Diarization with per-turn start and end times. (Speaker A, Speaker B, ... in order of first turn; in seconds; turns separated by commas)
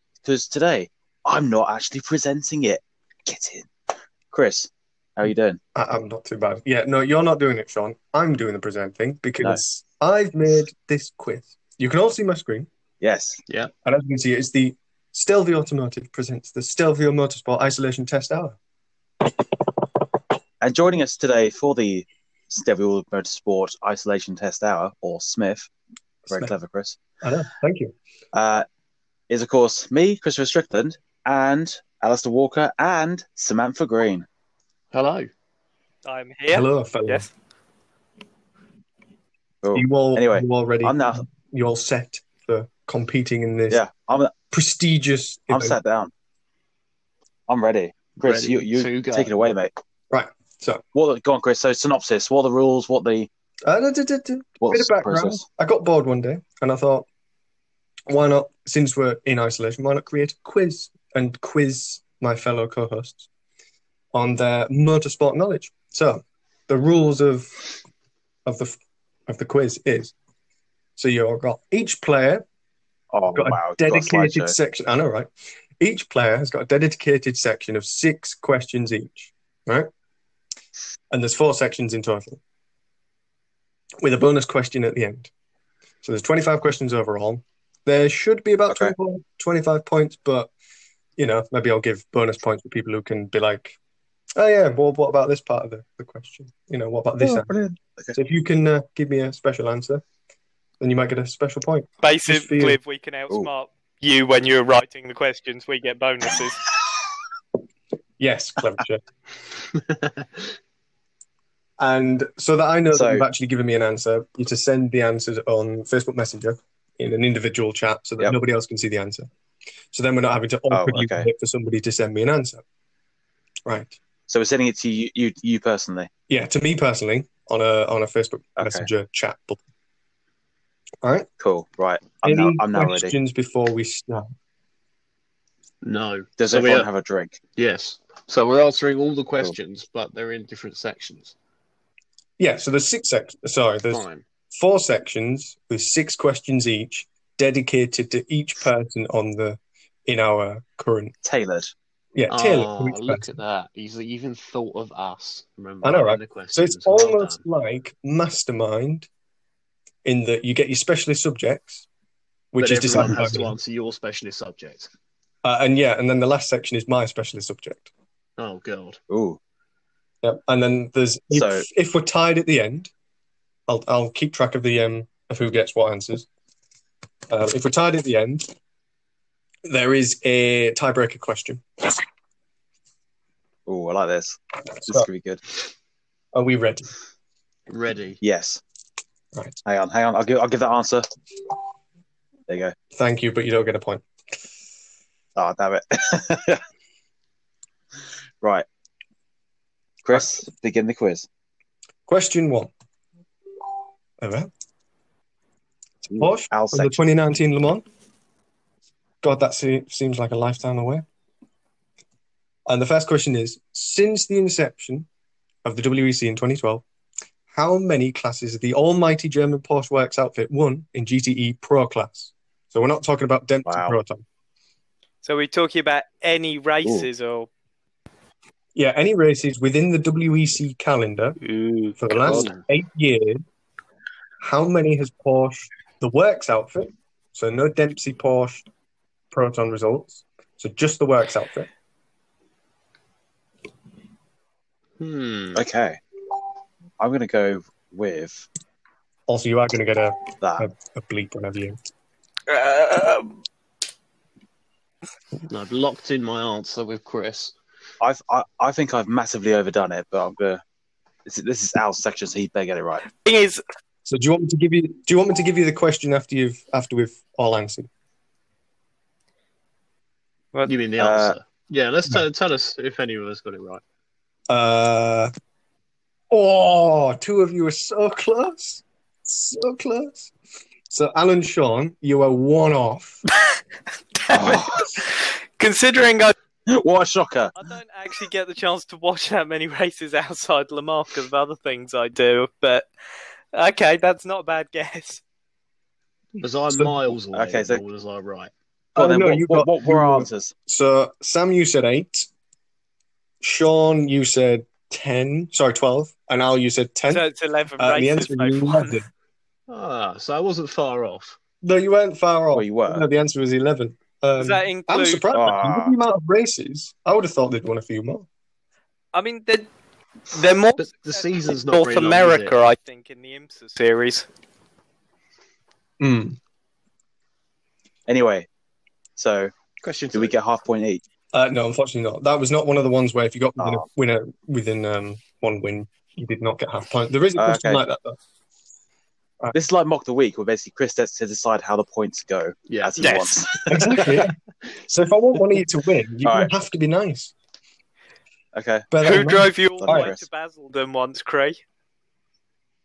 Speaker A: 0.2-3.7, Speaker A: 4.3-5.6, Speaker B: 5.8-12.7, Speaker A: 13.0-13.4, Speaker B: 13.8-18.6, Speaker A: 20.6-25.7, Speaker B: 26.3-26.5, Speaker A: 26.3-27.0, Speaker B: 27.2-27.9, Speaker A: 28.3-28.7, Speaker A: 29.3-34.3, Speaker C: 34.9-35.3, Speaker D: 36.0-37.3, Speaker B: 36.5-37.3, Speaker A: 39.6-41.2, Speaker B: 39.7-43.8, Speaker A: 43.7-44.3, Speaker B: 44.5-45.8, Speaker A: 45.5-46.1, Speaker A: 47.5-49.7, Speaker C: 48.2-49.5, Speaker B: 50.1-50.8, Speaker A: 50.9-53.3, Speaker B: 53.6-57.1, Speaker A: 54.6-55.5, Speaker B: 58.1-63.3, Speaker B: 64.1-67.6, Speaker B: 68.5-70.1, Speaker B: 71.0-72.5, Speaker A: 73.1-74.6, Speaker B: 73.3-79.9, Speaker B: 81.1-82.4, Speaker B: 84.0-85.3, Speaker B: 86.0-90.5, Speaker B: 91.2-93.8, Speaker B: 94.4-97.5, Speaker A: 97.2-98.2, Speaker B: 98.1-100.0, Speaker B: 100.8-102.8, Speaker D: 102.0-106.6, Speaker B: 108.2-109.0, Speaker C: 110.0-110.2, Speaker B: 111.8-119.3, Speaker A: 112.9-113.2, Speaker B: 119.9-122.6, Speaker A: 120.7-121.3, Speaker B: 123.7-124.0, Speaker A: 124.3-126.1, Speaker B: 126.3-129.6, Speaker A: 128.6-128.9, Speaker B: 131.0-131.3, Speaker A: 131.4-133.2, Speaker B: 132.2-134.3, Speaker C: 135.8-136.9, Speaker A: 136.4-137.4, Speaker C: 137.6-141.3, Speaker B: 142.4-151.1, Speaker C: 143.9-144.2, Speaker A: 151.2-151.7, Speaker B: 152.2-153.3, Speaker C: 152.3-157.4, Speaker B: 155.8-159.1, Speaker B: 160.1-161.9, Speaker B: 162.5-163.6, Speaker C: 162.6-164.9, Speaker B: 165.4-167.9, Speaker C: 168.4-169.0, Speaker A: 169.1-169.4, Speaker B: 170.2-172.9, Speaker A: 171.3-171.7, Speaker B: 173.7-176.3, Speaker B: 177.3-178.5, Speaker B: 179.7-182.0, Speaker A: 183.7-185.4, Speaker B: 186.3-186.9, Speaker C: 187.7-188.2, Speaker A: 188.2-188.6, Speaker A: 189.7-191.1, Speaker A: 192.5-192.8, Speaker B: 192.9-194.1, Speaker A: 195.4-196.6, Speaker A: 200.0-201.3, Speaker B: 202.1-202.7, Speaker B: 204.2-204.5, Speaker A: 206.1-207.2, Speaker B: 206.1-207.8, Speaker B: 209.2-211.1, Speaker B: 212.7-215.1, Speaker B: 215.7-216.8, Speaker B: 217.5-224.2, Speaker A: 223.7-224.0, Speaker D: 225.2-227.5, Speaker B: 228.8-231.4, Speaker D: 231.4-231.9, Speaker B: 232.0-233.4, Speaker A: 232.2-232.5, Speaker B: 234.4-238.7, Speaker B: 239.3-241.7, Speaker C: 245.0-245.6, Speaker A: 245.6-246.0, Speaker A: 247.0-248.5, Speaker B: 249.3-251.8, Speaker A: 250.4-250.7, Speaker A: 252.5-253.3, Speaker C: 255.5-257.6, Speaker A: 258.0-260.6, Speaker A: 261.3-263.1, Speaker D: 263.1-263.6, Speaker B: 264.1-267.9, Speaker C: 270.7-273.8, Speaker A: 271.0-271.4, Speaker B: 274.5-275.3, Speaker B: 276.3-280.3, Speaker B: 280.9-283.2, Speaker A: 284.3-284.9, Speaker D: 284.3-286.3, Speaker A: 286.7-287.6, Speaker D: 287.6-292.9, Speaker D: 293.5-295.2, Speaker C: 296.4-298.5, Speaker B: 296.7-297.0, Speaker A: 297.3-297.8, Speaker B: 299.0-302.3, Speaker A: 299.0-300.5, Speaker B: 303.4-307.2, Speaker D: 307.1-309.0, Speaker B: 307.8-309.1, Speaker C: 309.7-311.4, Speaker B: 311.6-318.3, Speaker A: 312.5-313.1, Speaker D: 314.4-315.3, Speaker A: 315.3-315.9, Speaker D: 319.1-319.7, Speaker D: 320.3-324.3, Speaker C: 320.8-322.6, Speaker B: 326.0-326.4, Speaker A: 328.1-328.5, Speaker A: 329.2-329.5, Speaker C: 329.8-330.3, Speaker A: 330.1-331.0, Speaker B: 331.3-338.2, Speaker A: 333.6-333.9, Speaker A: 337.4-337.8, Speaker A: 339.5-344.2, Speaker C: 342.7-343.1, Speaker D: 343.0-343.3, Speaker B: 343.7-344.3, Speaker B: 344.9-347.3, Speaker A: 346.2-346.5, Speaker A: 348.5-348.9, Speaker B: 348.9-350.1, Speaker D: 349.0-351.6, Speaker A: 349.8-350.2